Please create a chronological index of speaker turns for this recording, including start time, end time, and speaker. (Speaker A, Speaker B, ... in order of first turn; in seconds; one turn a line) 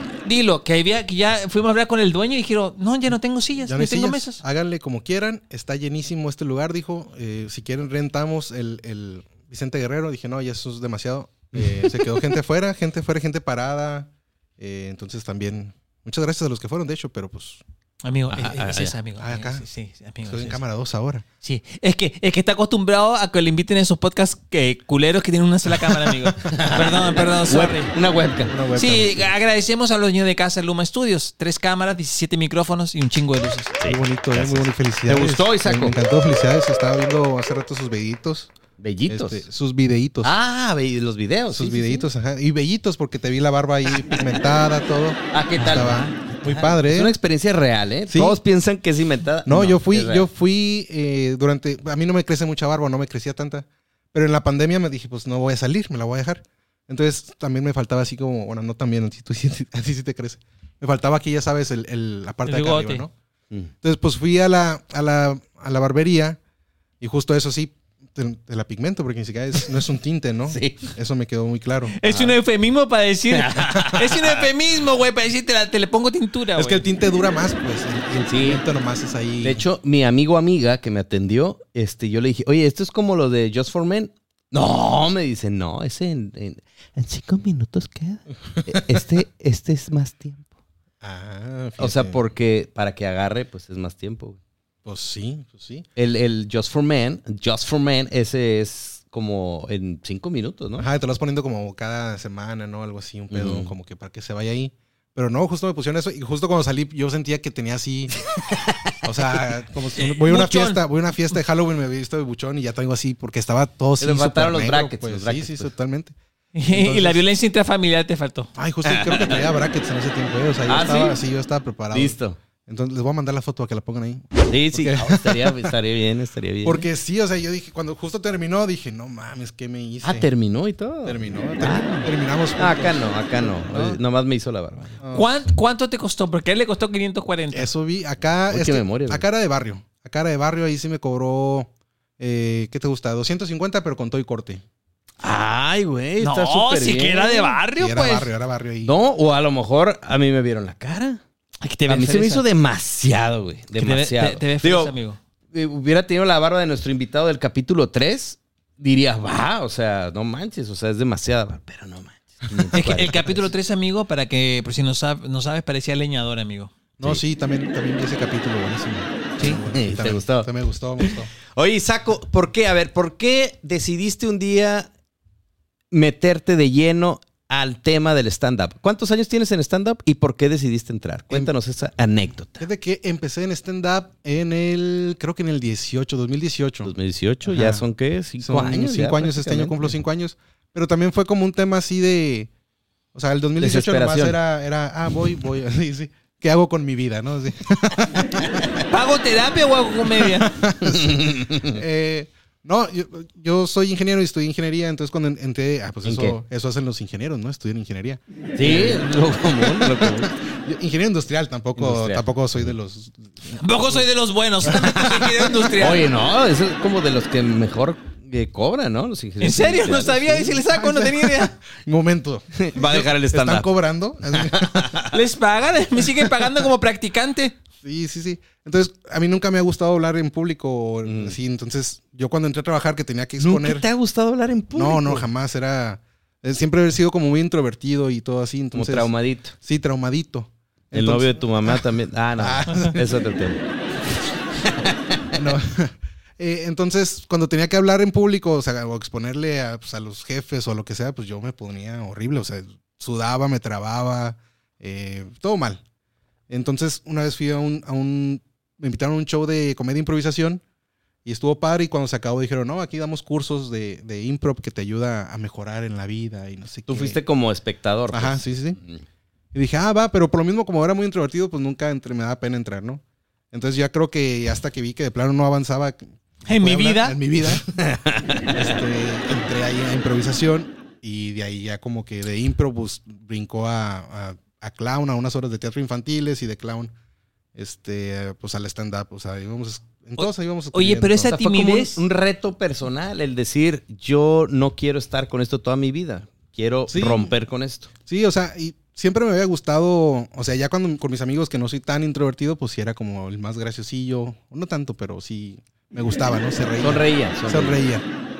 Speaker A: 0.2-4.4
Speaker B: 3.6-17.6
Speaker A: 18.0-20.6
Speaker C: 18.3-18.9
Speaker B: 19.2-19.6
Speaker B: 20.3-21.2
Speaker A: 21.4-27.9
Speaker B: 25.9-26.3
Speaker C: 26.5-28.6
Speaker B: 28.5-29.3
Speaker A: 28.8-33.8
Speaker C: 33.8-36.0
Speaker B: 33.9-38.5
Speaker C: 38.8-39.5
Speaker B: 39.1-40.4
Speaker C: 40.2-42.0
Speaker B: 41.5-47.2
Speaker C: 45.3-50.3
Speaker A: 45.6-46.1
Speaker B: 48.1-48.4
Speaker B: 49.5-63.1
Speaker A: 62.5-63.0
Speaker B: 63.8-66.4
Speaker B: 67.0-72.3
Speaker C: 70.5-70.9
Speaker A: 72.0-76.8
Speaker C: 73.3-74.5
Speaker B: 76.6-79.6
Speaker C: 78.3-78.6
Speaker C: 79.4-90.5
Speaker B: 91.0-92.2
Speaker C: 91.8-94.4
Speaker B: 94.8-95.9
Speaker C: 96.0-100.9
Speaker B: 100.8-108.2
Speaker C: 103.3-103.7
Speaker C: 108.4-109.4
Speaker B: 109.0-116.2
Speaker A: 110.0-110.8
Speaker C: 114.0-115.7
Speaker A: 116.5-118.5
Speaker B: 116.7-117.2
Speaker B: 118.5-125.7
Speaker C: 118.8-119.4
Speaker C: 120.7-121.2
Speaker C: 121.9-122.4
Speaker C: 124.5-126.8
Speaker B: 126.6-130.3
Speaker C: 130.0-135.0
Speaker B: 131.1-134.0
Speaker B: 135.0-135.4
Speaker A: 135.1-137.7
Speaker B: 137.5-144.6
Speaker C: 138.5-139.2
Speaker C: 145.2-147.6
Speaker A: 146.2-148.3
Speaker B: 147.8-148.9
Speaker C: 148.8-151.2
Speaker A: 151.6-152.4
Speaker C: 151.9-154.9
Speaker A: 153.8-155.2
Speaker C: 155.5-163.3
Speaker A: 162.7-166.7
Speaker B: 167.0-171.3
Speaker C: 169.7-174.9
Speaker C: 175.9-182.7
Speaker B: 182.6-186.9
Speaker C: 186.8-189.9
Speaker B: 187.4-187.8
Speaker B: 188.4-192.5
Speaker B: 193.1-198.7
Speaker C: 193.6-194.4
Speaker A: 198.9-200.6
Speaker B: 200.2-209.1
Speaker C: 200.8-201.8
Speaker C: 206.0-206.4
Speaker C: 208.6-210.3
Speaker B: 209.6-214.0
Speaker C: 211.8-212.6
Speaker A: 213.5-216.1
Speaker B: 214.6-215.7
Speaker C: 215.8-220.5
Speaker A: 219.4-221.6
Speaker B: 220.4-225.0
Speaker C: 222.6-223.7
Speaker C: 224.3-225.1
Speaker A: 225.1-227.6
Speaker B: 227.8-233.9
Speaker C: 231.1-231.4
Speaker C: 233.4-235.3
Speaker B: 234.8-243.2
Speaker C: 238.7-239.5
Speaker C: 240.9-243.6
Speaker C: 244.6-245.4
Speaker B: 245.3-255.8
Speaker B: 256.5-260.6
Speaker B: 261.2-267.2
Speaker C: 266.9-269.0
Speaker B: 268.1-268.8
Speaker B: 269.5-277.8
Speaker A: 276.5-277.2
Speaker C: 277.7-278.8
Speaker B: 278.5-286.9
Speaker B: 287.6-291.3
Speaker A: 290.2-292.0
Speaker C: 291.2-297.9
Speaker B: 296.9-297.3
Speaker B: 298.1-308.1
Speaker C: 306.8-307.8